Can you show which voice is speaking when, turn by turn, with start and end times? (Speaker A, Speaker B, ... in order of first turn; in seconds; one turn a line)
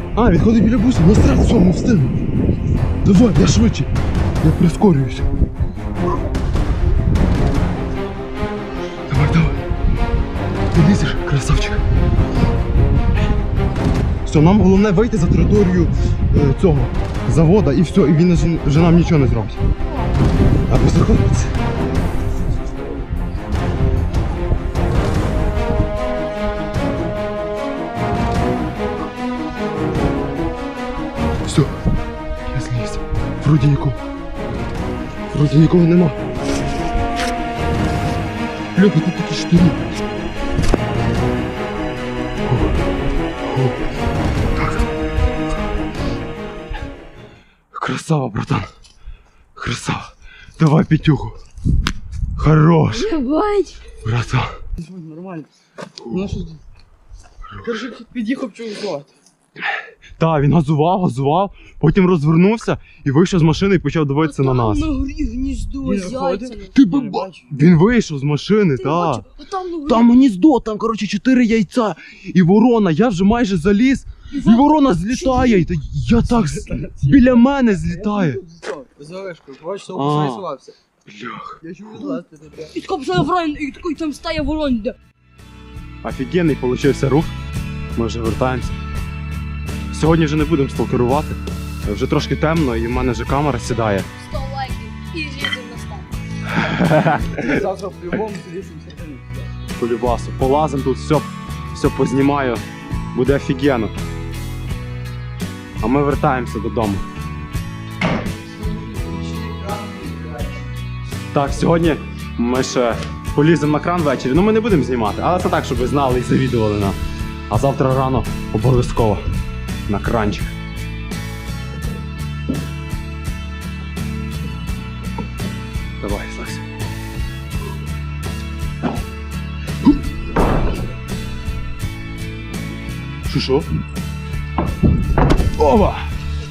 Speaker A: 0.1-2.2
Speaker A: 3.0-3.9
Speaker A: 4.4-5.3
Speaker A: 9.1-9.6
Speaker A: 10.7-11.8
Speaker A: 14.3-19.6
Speaker B: 19.7-20.2
Speaker A: 20.7-21.5
Speaker A: 31.5-31.8
Speaker A: 32.5-34.0
Speaker A: 35.3-36.2
Speaker A: 38.8-39.8
Speaker A: 43.5-43.8
Speaker A: 44.6-44.9
Speaker A: 47.7-48.7
Speaker A: 49.5-51.4
Speaker A: 52.4-53.2
Speaker B: 52.9-53.8
Speaker A: 54.0-54.6
Speaker C: 54.8-55.5
Speaker A: 56.0-56.3
Speaker C: 56.0-56.6
Speaker C: 57.6-59.1
Speaker A: 60.2-64.9
Speaker B: 64.2-66.7
Speaker C: 65.8-67.6
Speaker A: 66.7-69.3
Speaker B: 68.8-70.1
Speaker A: 69.9-78.4
Speaker B: 74.3-75.7
Speaker C: 76.5-80.8
Speaker A: 79.9-80.5
Speaker A: 81.1-81.6
Speaker C: 81.6-82.8
Speaker B: 82.7-85.0
Speaker A: 86.0-87.3
Speaker A: 88.0-88.8
Speaker A: 89.9-94.1
Speaker B: 94.2-96.1
Speaker A: 96.5-97.5
Speaker C: 97.3-99.5
Speaker A: 99.8-103.9
Speaker A: 105.8-107.0
Speaker C: 108.6-110.6
Speaker A: 111.3-117.0
Speaker A: 117.5-119.2
Speaker A: 119.9-120.6
Speaker A: 126.0-126.6
Speaker A: 133.3-133.7
Speaker A: 135.6-136.1